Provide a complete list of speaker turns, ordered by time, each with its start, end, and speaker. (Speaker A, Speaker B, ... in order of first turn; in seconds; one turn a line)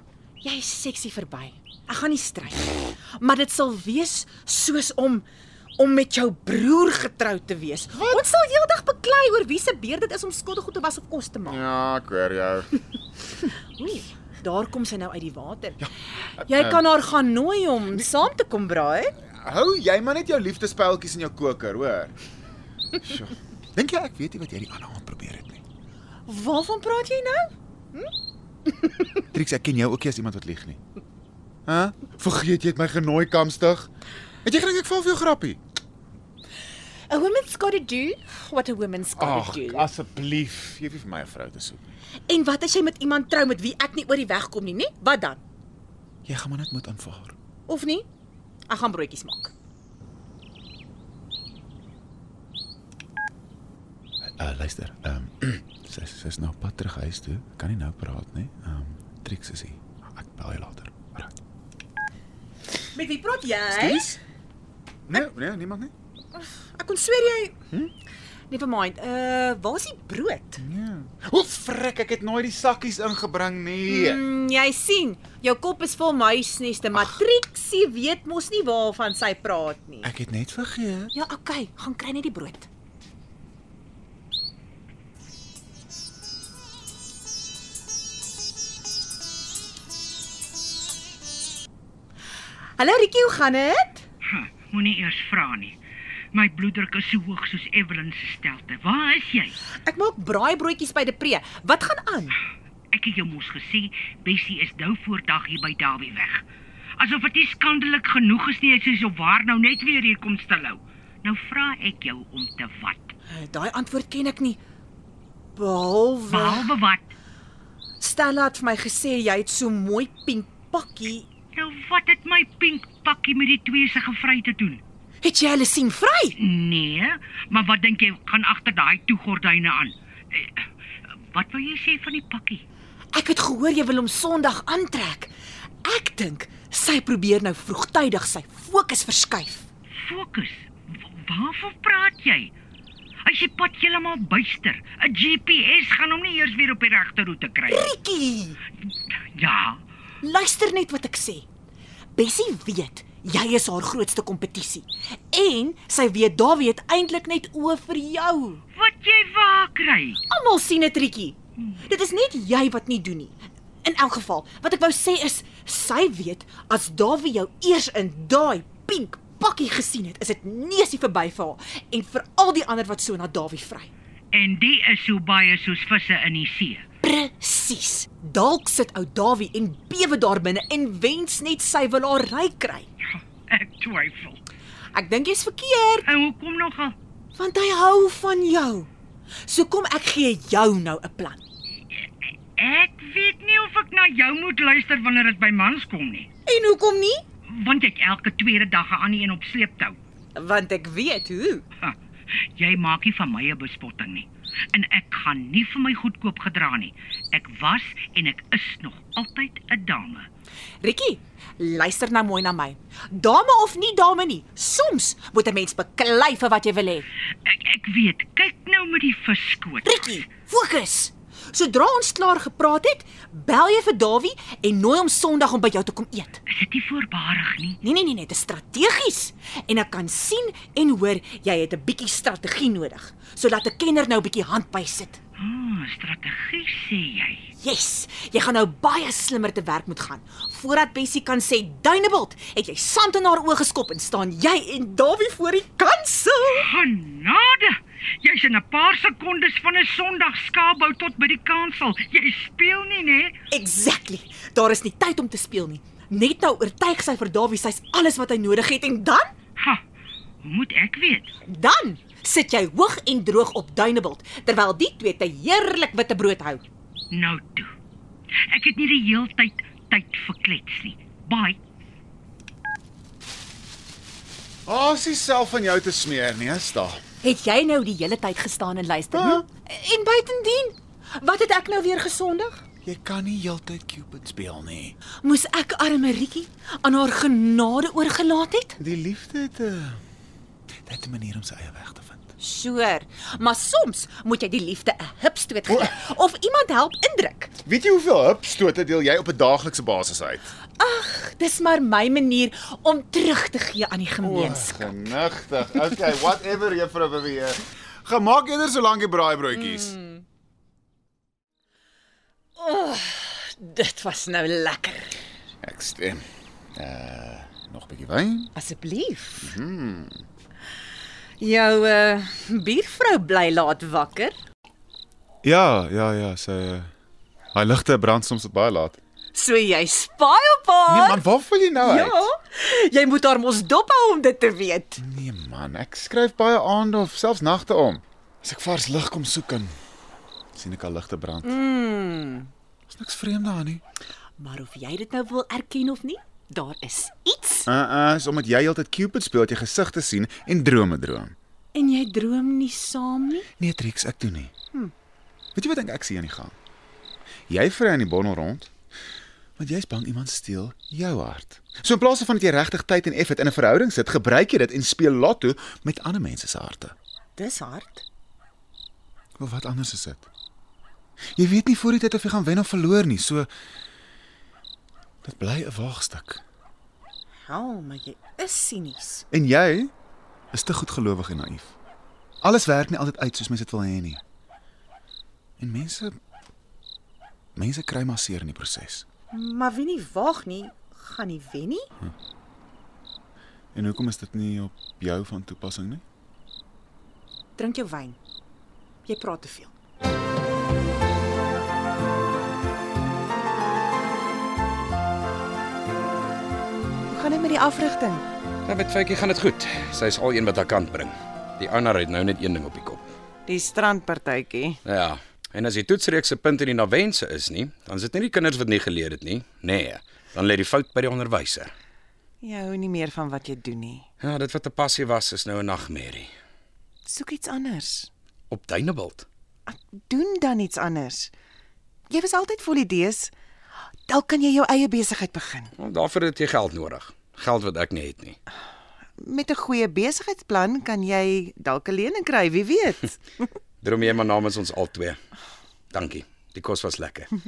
Speaker A: 0.4-5.3
Speaker A: 5.8-11.6
Speaker B: 8.0-8.2
Speaker B: 11.5-12.7
Speaker A: 13.8-15.8
Speaker B: 15.8-16.8
Speaker A: 16.5-19.1
Speaker B: 19.4-22.2
Speaker B: 23.0-25.6
Speaker A: 26.3-28.1
Speaker A: 28.7-29.1
Speaker B: 29.3-30.8
Speaker B: 31.7-33.9
Speaker B: 34.4-35.6
Speaker A: 37.1-39.9
Speaker B: 39.2-41.9
Speaker A: 42.3-45.4
Speaker B: 46.3-47.4
Speaker A: 47.7-48.1
Speaker A: 48.7-49.5
Speaker B: 54.4-61.3
Speaker A: 62.9-64.1
Speaker B: 63.7-64.2
Speaker B: 65.1-65.9
Speaker A: 66.3-67.5
Speaker A: 68.5-70.6
Speaker B: 70.6-74.2
Speaker A: 73.9-80.1
Speaker B: 80.0-81.1
Speaker A: 81.1-82.7
Speaker A: 92.8-94.0
Speaker C: 94.3-95.7
Speaker C: 96.3-99.6
Speaker A: 99.7-102.4
Speaker C: 102.9-106.4
Speaker C: 107.0-113.1
Speaker A: 113.3-114.6
Speaker A: 115.6-116.8
Speaker C: 116.3-117.0
Speaker A: 118.0-121.3
Speaker C: 121.5-124.8
Speaker A: 125.2-126.4
Speaker C: 126.4-130.6
Speaker C: 131.3-132.6
Speaker A: 133.1-135.3
Speaker A: 135.8-139.7
Speaker C: 140.1-142.5
Speaker C: 143.3-147.8
Speaker A: 147.7-148.6
Speaker C: 149.4-149.8
Speaker A: 150.2-151.5
Speaker A: 152.2-158.6
Speaker C: 158.8-160.2
Speaker A: 160.3-173.9
Speaker C: 174.3-176.8
Speaker A: 177.0-182.9
Speaker C: 183.5-184.5
Speaker A: 184.9-186.1
Speaker C: 186.1-187.0
Speaker A: 187.3-188.9
Speaker A: 189.5-191.4
Speaker C: 192.6-196.3
Speaker A: 196.5-197.2
Speaker C: 197.5-200.0
Speaker A: 200.4-201.7
Speaker C: 202.6-210.3
Speaker A: 210.8-217.1
Speaker C: 217.4-220.2
Speaker A: 219.8-226.4
Speaker C: 226.5-227.8
Speaker A: 227.8-235.2
Speaker C: 235.4-237.5
Speaker A: 237.6-246.7
Speaker C: 246.6-253.3
Speaker A: 253.5-259.3
Speaker C: 260.4-261.3
Speaker A: 261.4-266.6
Speaker C: 267.1-267.7
Speaker C: 268.5-271.6
Speaker B: 274.7-277.0
Speaker A: 277.2-282.6
Speaker B: 279.1-279.4
Speaker B: 282.8-284.9
Speaker A: 285.2-288.8
Speaker B: 288.8-290.0
Speaker B: 290.9-292.3
Speaker A: 292.4-297.5
Speaker B: 297.6-300.5
Speaker A: 300.8-305.1
Speaker B: 304.2-310.0
Speaker A: 309.5-310.2
Speaker A: 312.6-315.2
Speaker B: 315.6-318.5
Speaker A: 318.6-319.6
Speaker B: 319.4-320.2
Speaker A: 321.4-324.4
Speaker B: 325.4-326.9
Speaker B: 327.5-329.0
Speaker A: 329.3-331.2
Speaker B: 330.9-332.3
Speaker A: 331.8-335.0
Speaker B: 335.0-339.8
Speaker B: 340.6-341.6
Speaker A: 341.4-342.5
Speaker B: 342.9-343.8
Speaker A: 344.4-347.7
Speaker B: 347.7-351.3
Speaker A: 351.7-353.5
Speaker B: 353.6-354.5
Speaker B: 355.6-356.5
Speaker B: 357.5-358.7
Speaker B: 359.6-366.9
Speaker A: 367.4-368.1
Speaker B: 369.4-370.3
Speaker B: 371.4-373.5
Speaker B: 375.2-376.4
Speaker A: 377.5-379.2
Speaker B: 379.3-379.9
Speaker B: 380.5-381.7
Speaker B: 382.4-384.2
Speaker B: 385.6-386.1
Speaker B: 387.6-389.1
Speaker A: 389.3-391.9
Speaker B: 393.8-396.0
Speaker A: 397.6-398.2
Speaker A: 399.1-399.7
Speaker A: 407.2-408.2
Speaker D: 408.7-413.1
Speaker E: 413.5-414.8
Speaker D: 414.9-421.7
Speaker E: 422.4-423.9
Speaker D: 424.2-426.3
Speaker E: 427.1-428.0
Speaker D: 428.5-429.3
Speaker E: 430.1-431.2
Speaker E: 432.2-433.3
Speaker E: 434.1-435.7
Speaker D: 435.8-438.4
Speaker E: 439.2-443.0
Speaker D: 443.8-445.2
Speaker D: 445.9-447.3